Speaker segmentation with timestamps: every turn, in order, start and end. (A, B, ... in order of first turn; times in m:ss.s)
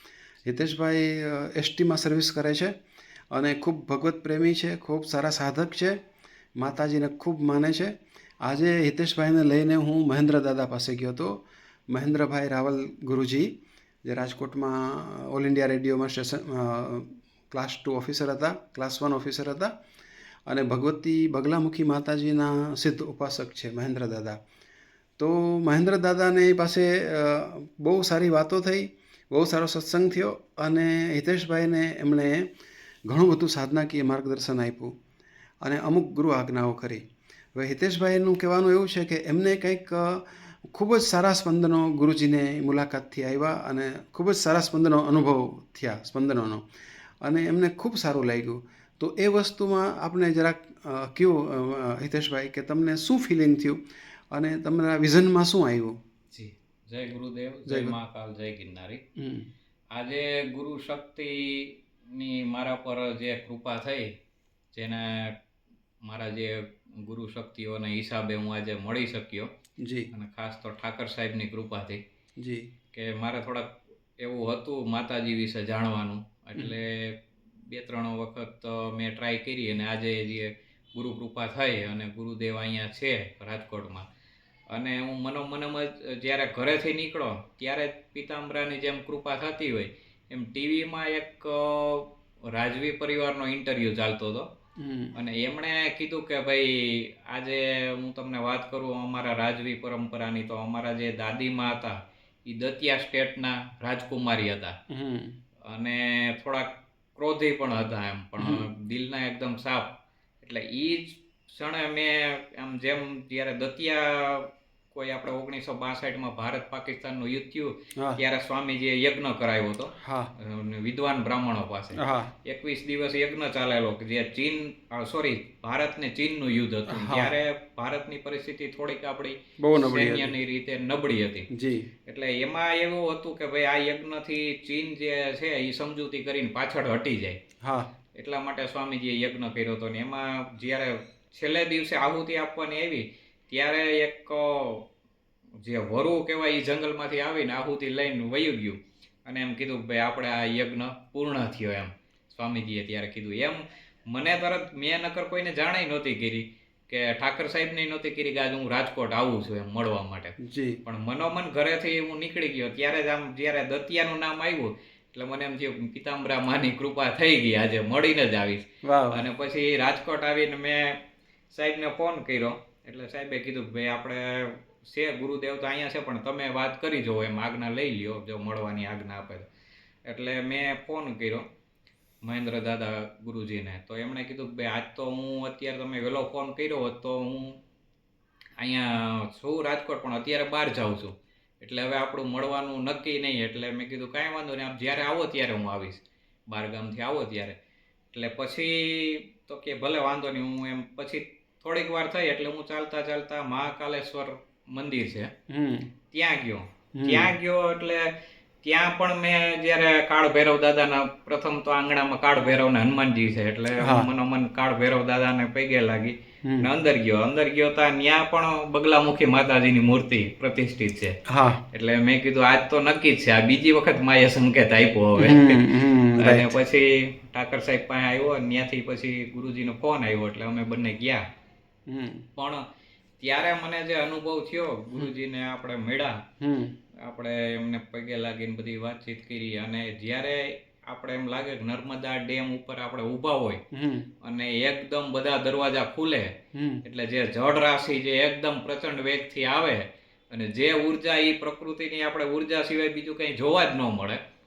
0:00.4-0:02.7 A
0:03.3-0:06.0 A
0:06.6-0:19.7 A
0:20.5-0:24.4 A
0:25.2-0:32.5 A
0:33.1-0:34.9 A
0:35.6-0:37.0 A
0:37.6-0:46.6 A
0:47.2-0:53.8 A
0:54.3-0:56.0 A
0:56.3-0:59.0 B
0:57.7-0:58.0 A
0:59.2-0:59.5 A
0:59.9-1:04.1 B
1:04.7-1:05.4 B
1:06.0-1:09.5 B
1:09.8-1:10.1 A
1:10.1-1:12.0 B
1:12.4-1:12.7 A
1:12.9-1:24.1 B
1:24.7-1:34.5 B
1:34.8-1:35.2 A
1:35.2-1:44.8 B
1:44.9-1:45.4 A
1:45.7-2:11.5 B
1:48.4-1:48.7 A
2:00.0-2:00.3 A
2:02.0-2:02.3 A
2:06.9-2:07.4 A
2:09.6-2:10.3 A
2:11.5-2:11.9 A
2:12.1-2:17.4 B
2:17.6-2:17.9 A
2:18.2-2:24.9 B
2:25.6-2:51.0 B
2:40.4-2:40.8 A
2:48.8-2:49.3 A
2:51.5-2:59.5 B
3:00.1-3:01.5 B
3:02.2-3:07.6 B
3:08.6-3:17.6 B
3:18.1-3:25.3 B
3:25.5-3:25.9 A
3:26.1-3:28.1 B
3:27.0-3:27.3 A
3:28.6-3:41.2 B
3:33.8-3:34.1 A
3:41.3-3:41.6 A
3:41.7-3:51.2 B
3:45.2-3:46.6 A
3:51.9-3:52.3 A
3:52.4-3:52.6 B
3:53.2-3:56.2 B
3:56.4-3:56.7 A
3:57.0-4:03.6 B
4:03.7-4:04.1 A
4:04.2-4:06.3 B
4:06.6-4:06.8 A
4:06.8-4:14.2 B